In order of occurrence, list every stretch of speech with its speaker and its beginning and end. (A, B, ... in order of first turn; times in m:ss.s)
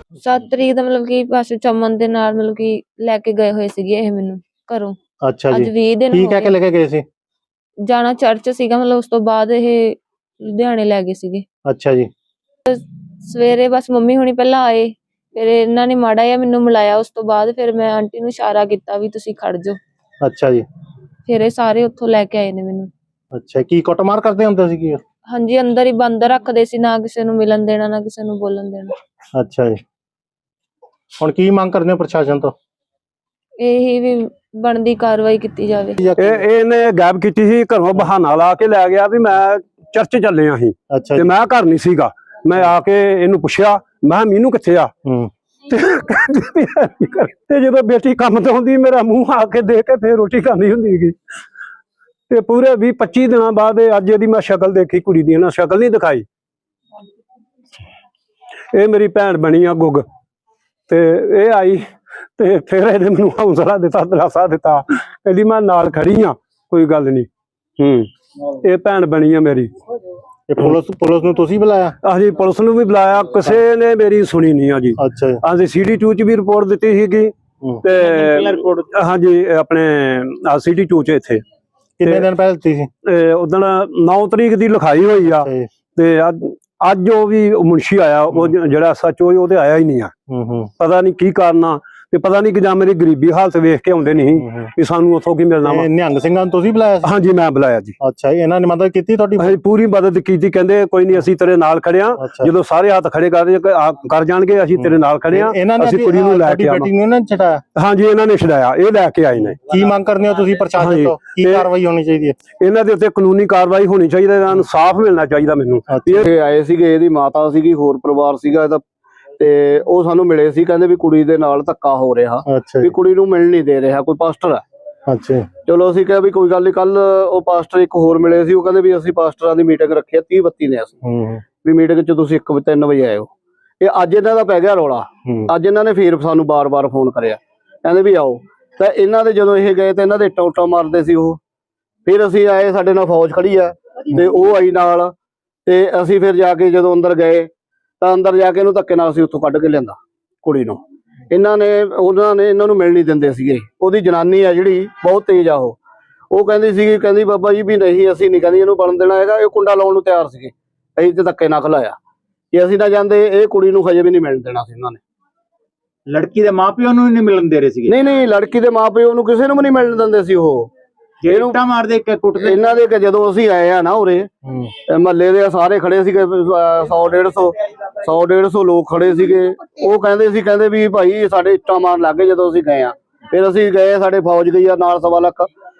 0:00.2-0:05.0 A
0:05.2-0:07.0 B
0:05.5-0:06.6 A
0:07.9-0:11.4 A
0:11.6-0:12.1 B
0:12.7-0:19.8 A
0:20.2-0:20.6 B
0:21.3-0:22.9 A
0:23.3-0:25.0 B
0:25.3-0:29.0 A
0:29.3-0:29.8 B
0:31.2-0:32.5 B
0:33.6-0:36.0 A
0:36.0-0:36.4 B
0:36.2-0:44.9 C
0:40.9-0:41.3 B
0:45.0-0:45.3 B
0:45.7-0:51.1 C
0:52.3-0:56.2 C
0:58.7-1:00.0 C
1:00.9-1:01.8 C
1:02.4-1:07.3 C
1:07.8-1:08.1 C
1:08.6-1:09.7 C
1:10.5-1:11.9 B
1:12.0-1:21.4 C
1:15.0-1:15.4 B
1:18.3-1:18.6 D
1:22.0-1:22.9 B
1:23.0-1:30.1 C
1:25.2-1:25.7 B
1:30.3-1:30.7 B
1:30.8-1:35.9 C
1:34.3-1:34.7 B
1:35.6-1:37.1 B
1:37.0-1:37.9 C
1:38.0-1:39.5 B
1:39.4-1:46.9 C
1:42.2-1:42.5 B
1:44.8-1:47.6 B
1:47.8-1:49.6 C
1:49.6-1:52.4 B
1:50.8-1:51.7 C
1:52.6-1:56.2 C
1:55.9-1:56.2 B
1:56.2-1:58.8 E
1:59.4-2:04.6 E
2:02.4-2:02.9 B
2:05.1-2:05.5 B
2:05.7-2:10.9 E
2:11.0-2:11.4 B
2:11.6-2:13.3 E
2:13.8-2:21.4 E
2:15.2-2:15.5 B
2:22.1-2:25.1 E
2:25.7-2:27.5 E
2:28.0-2:35.8 E
2:36.3-2:42.0 E
2:42.5-2:45.0 E
2:46.1-2:47.9 D
2:47.9-2:50.7 E
2:51.2-2:52.6 D
2:51.3-2:51.6 E
2:52.3-2:54.3 E
2:54.4-2:54.7 B
2:54.9-3:05.5 E